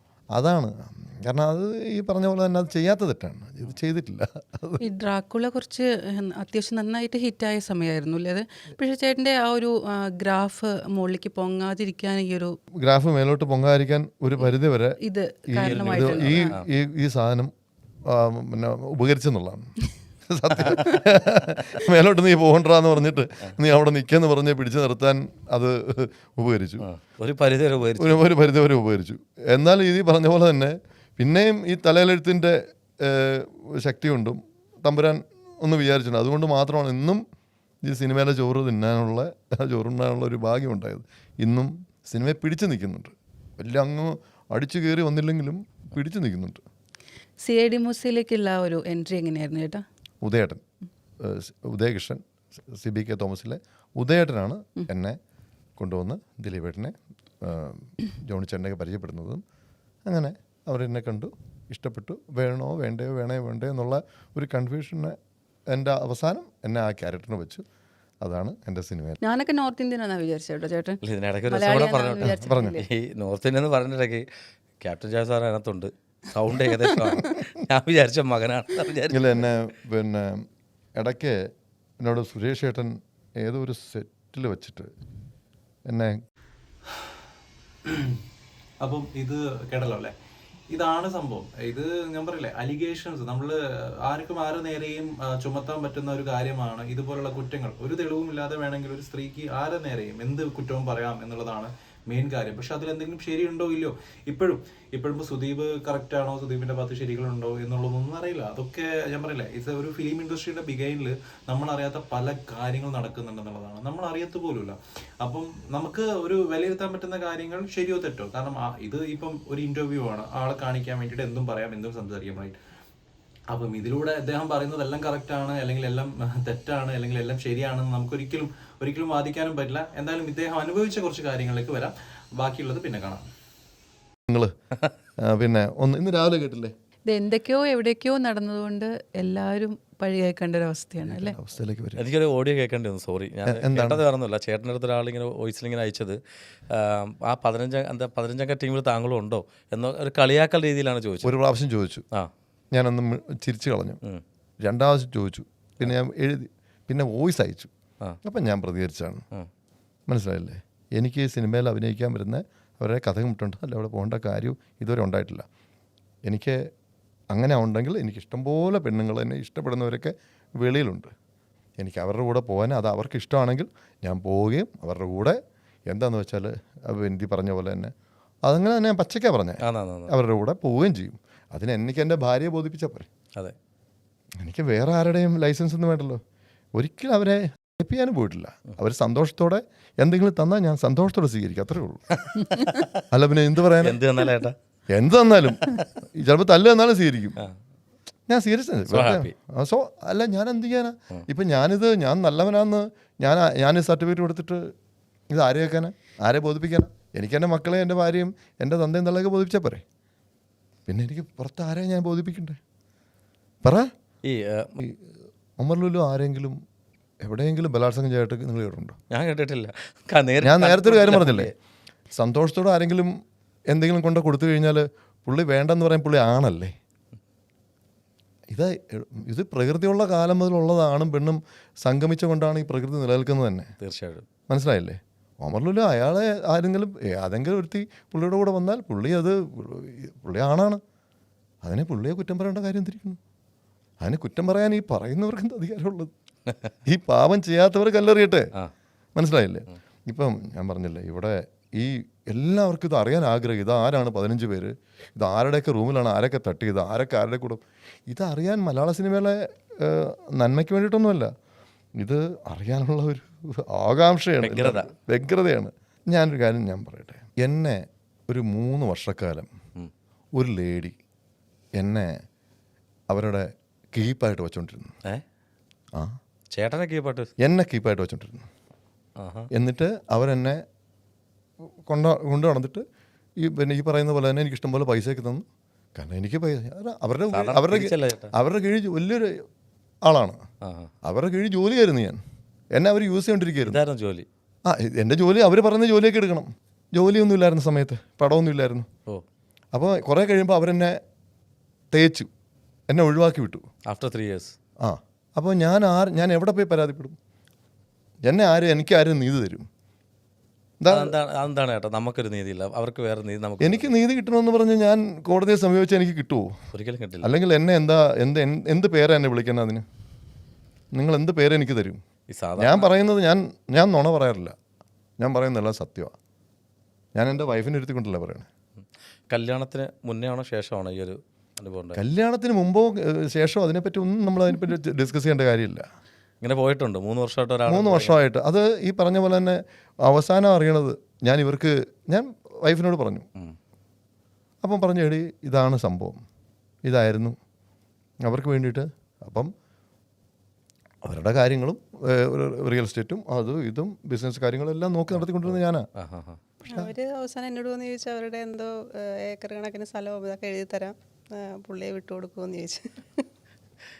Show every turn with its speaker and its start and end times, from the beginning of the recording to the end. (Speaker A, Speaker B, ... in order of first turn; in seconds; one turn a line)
Speaker A: 0.3-4.8
Speaker B: 4.8-12.6
Speaker A: 12.8-15.0
Speaker B: 15.0-16.5
Speaker A: 15.5-17.5
Speaker C: 15.6-16.6
Speaker A: 18.1-19.7
Speaker A: 20.3-26.9
Speaker C: 26.8-28.3
Speaker A: 28.0-37.2
Speaker A: 37.8-46.6
Speaker B: 47.4-49.8
Speaker A: 50.2-50.6
Speaker A: 51.2-55.2
Speaker A: 55.8-59.4
Speaker A: 60.1-65.2
Speaker A: 65.7-67.6
Speaker A: 68.2-69.2
Speaker B: 69.2-72.8
Speaker C: 71.0-74.3
Speaker A: 72.2-72.8
Speaker C: 74.8-79.5
Speaker A: 79.1-80.5
Speaker A: 81.0-81.4
Speaker A: 82.0-84.9
Speaker A: 85.9-86.2
Speaker D: 87.8-88.2
Speaker D: 88.8-90.1
Speaker D: 90.7-122.6
Speaker D: 123.5-133.3
Speaker A: 134.3-134.5
Speaker A: 135.2-136.7
Speaker B: 137.1-141.3
Speaker A: 141.0-142.0
Speaker C: 142.0-151.3
Speaker A: 143.5-144.0
Speaker A: 151.2-152.1
Speaker A: 152.7-154.0
Speaker A: 154.6-157.7
Speaker A: 158.2-159.2
Speaker A: 160.1-165.5
Speaker A: 166.3-166.7
Speaker A: 167.3-171.1
Speaker A: 171.8-175.4
Speaker A: 175.9-177.9
Speaker A: 178.5-183.1
Speaker C: 179.6-180.1
Speaker A: 184.4-186.2
Speaker A: 186.8-192.5
Speaker C: 192.2-192.9
Speaker A: 193.1-194.0
Speaker C: 193.8-194.6
Speaker A: 194.9-197.4
Speaker C: 195.6-195.8
Speaker A: 198.3-204.7
Speaker C: 198.9-199.3
Speaker A: 205.3-209.8
Speaker A: 210.9-212.6
Speaker A: 213.6-213.9
Speaker C: 214.2-214.8
Speaker A: 214.8-216.6
Speaker A: 217.2-219.0
Speaker C: 219.1-221.5
Speaker A: 220.4-221.5
Speaker A: 222.2-223.2
Speaker A: 223.7-226.7
Speaker A: 228.5-233.7
Speaker C: 233.8-234.3
Speaker A: 234.5-240.8
Speaker A: 241.6-243.2
Speaker A: 244.0-246.1
Speaker A: 246.9-248.5
Speaker A: 249.2-261.3
Speaker A: 262.0-269.5
Speaker C: 264.4-264.9
Speaker A: 270.4-271.0
Speaker A: 271.8-272.1
Speaker A: 273.1-274.9
Speaker C: 276.5-277.3
Speaker A: 277.4-278.5
Speaker C: 279.2-279.5
Speaker A: 279.5-280.6
Speaker A: 281.9-282.8
Speaker A: 283.4-285.4
Speaker A: 286.0-289.4
Speaker C: 287.3-288.3
Speaker A: 290.1-290.4
Speaker C: 290.6-290.9
Speaker A: 291.1-292.2
Speaker A: 292.8-293.8
Speaker C: 293.6-294.3
Speaker A: 294.7-298.9
Speaker A: 299.7-301.0
Speaker A: 301.9-302.3
Speaker A: 302.9-303.6
Speaker C: 303.9-304.6
Speaker A: 304.8-307.2
Speaker A: 308.2-309.7
Speaker A: 310.8-311.1
Speaker C: 310.9-313.9
Speaker A: 313.6-316.6
Speaker C: 316.7-317.3
Speaker A: 317.2-319.8
Speaker A: 320.9-322.0
Speaker C: 322.3-322.9
Speaker A: 322.6-324.6
Speaker A: 325.2-326.1
Speaker A: 327.2-328.5
Speaker C: 329.3-332.0
Speaker A: 332.0-335.9
Speaker C: 336.4-338.2
Speaker A: 337.7-343.3
Speaker A: 344.6-346.2
Speaker A: 346.9-347.4
Speaker A: 348.2-349.5
Speaker A: 351.0-355.9
Speaker C: 355.1-356.4
Speaker A: 356.6-356.9
Speaker E: 356.7-363.3